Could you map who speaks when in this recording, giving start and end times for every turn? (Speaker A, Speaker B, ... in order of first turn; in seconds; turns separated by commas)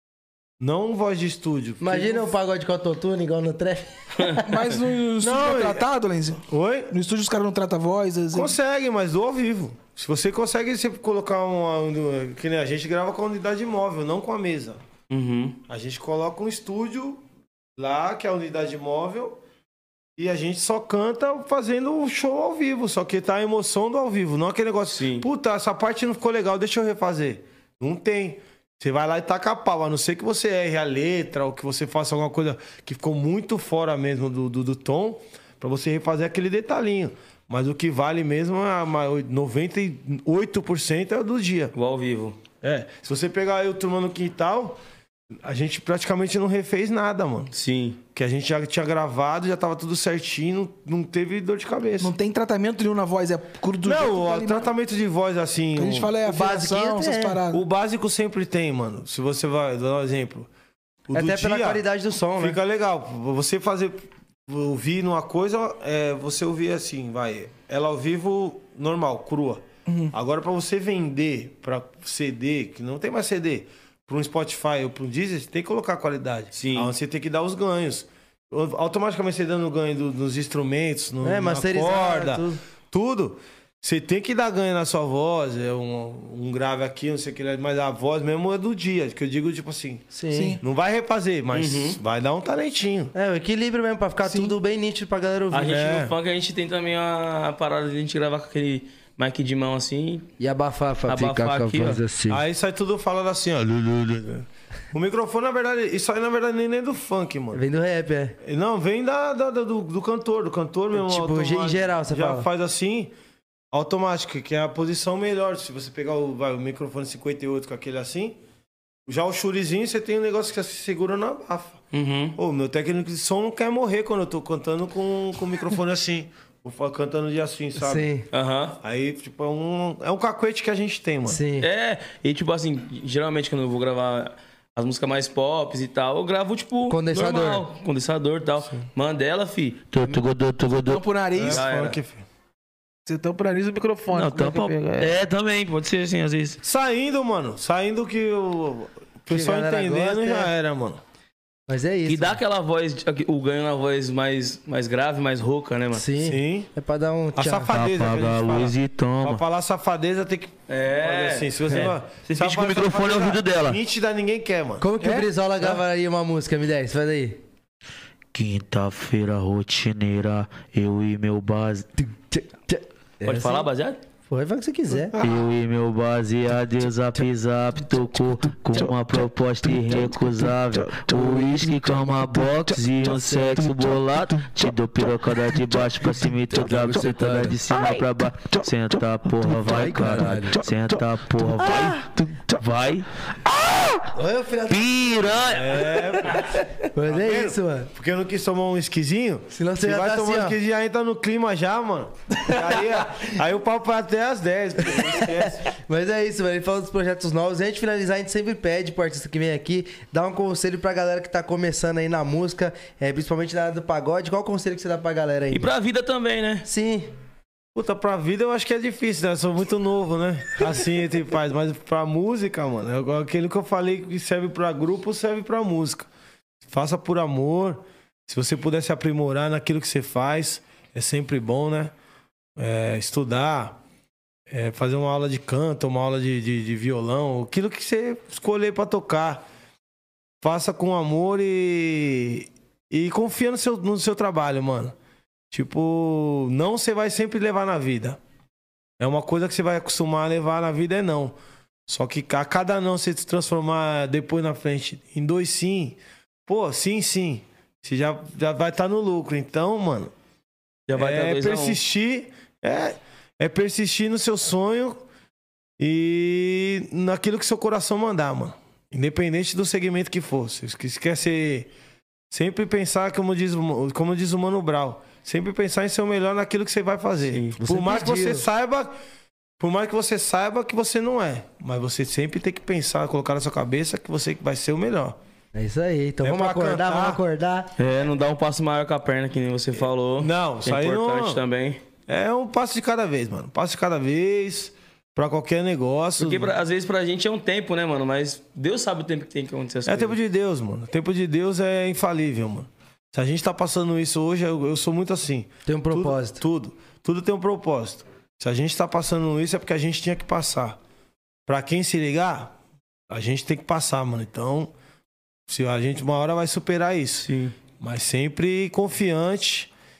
Speaker A: 0.6-2.4, Speaker B: 1.8-4.5, Speaker C: 4.4-8.6, Speaker A: 5.2-5.9, Speaker A: 6.5-6.9, Speaker A: 8.3-14.8, Speaker D: 15.1-15.6, Speaker A: 15.7-17.2, Speaker A: 17.8-19.4, Speaker A: 20.2-41.7, Speaker D: 24.9-25.2, Speaker D: 41.7-42.4, Speaker A: 42.6-44.8, Speaker A: 45.4-47.5, Speaker D: 47.5-48.0, Speaker A: 48.1-52.1, Speaker C: 52.0-54.7, Speaker A: 53.8-56.2, Speaker C: 55.8-57.6, Speaker B: 56.2-57.4, Speaker A: 57.5-60.5, Speaker A: 61.1-61.8, Speaker B: 61.1-62.6, Speaker A: 62.4-93.1, Speaker C: 69.9-70.1, Speaker D: 76.5-76.9, Speaker B: 81.2-82.6, Speaker B: 90.1-90.6, Speaker C: 90.3-90.6, Speaker D: 91.5-92.0, Speaker B: 93.1-95.8, Speaker C: 94.2-94.5, Speaker D: 95.5-100.3, Speaker A: 95.7-96.1, Speaker B: 100.4-102.4, Speaker D: 101.1-102.0, Speaker A: 102.3-107.6, Speaker B: 107.5-108.3, Speaker A: 108.4-113.1, Speaker B: 110.9-112.5, Speaker A: 113.7-118.4, Speaker A: 119.1-121.8, Speaker D: 121.9-122.4, Speaker A: 122.4-128.1, Speaker B: 127.8-128.3, Speaker D: 128.3-128.8, Speaker A: 128.8-131.4, Speaker B: 131.3-131.7, Speaker D: 131.6-139.8, Speaker B: 136.9-137.6, Speaker E: 139.9-141.0, Speaker C: 140.8-141.6, Speaker A: 141.3-142.2, Speaker D: 141.5-142.0, Speaker C: 143.1-144.8, Speaker E: 144.2-145.1, Speaker D: 144.2-146.6, Speaker A: 146.6-151.0, Speaker B: 149.3-150.5, Speaker B: 151.7-152.4, Speaker D: 152.1-156.1, Speaker B: 155.9-157.7, Speaker A: 156.2-156.7, Speaker A: 157.3-164.9, Speaker E: 157.7-159.4, Speaker D: 160.7-163.3, Speaker E: 162.7-163.8, Speaker B: 164.8-167.4, Speaker E: 168.3-171.9, Speaker B: 172.0-173.7, Speaker D: 173.2-174.0, Speaker B: 174.3-175.2, Speaker E: 175.2-194.1, Speaker B: 186.7-187.5, Speaker B: 189.7-190.6, Speaker B: 194.1-194.9, Speaker E: 194.7-196.0, Speaker A: 195.4-205.7, Speaker B: 196.9-197.9, Speaker B: 199.5-200.6, Speaker B: 204.9-215.7, Speaker D: 215.5-216.7, Speaker B: 216.7-217.1, Speaker A: 217.7-226.1, Speaker A: 226.7-231.9, Speaker A: 232.6-233.8, Speaker A: 234.5-239.4, Speaker A: 240.4-244.9, Speaker A: 245.5-248.2, Speaker A: 249.0-251.3, Speaker A: 251.9-260.1, Speaker D: 260.9-261.8, Speaker A: 260.9-265.0, Speaker A: 265.8-271.7, Speaker A: 272.3-278.9, Speaker D: 277.3-277.6, Speaker B: 277.6-278.4, Speaker A: 279.6-285.2, Speaker B: 285.5-287.7, Speaker A: 286.2-287.2, Speaker D: 287.8-291.8, Speaker A: 290.2-291.4, Speaker A: 292.1-296.5, Speaker D: 296.2-300.2, Speaker A: 299.9-310.8, Speaker B: 305.6-306.4, Speaker A: 311.5-312.6, Speaker A: 313.1-314.7, Speaker A: 315.5-319.7, Speaker D: 317.2-317.6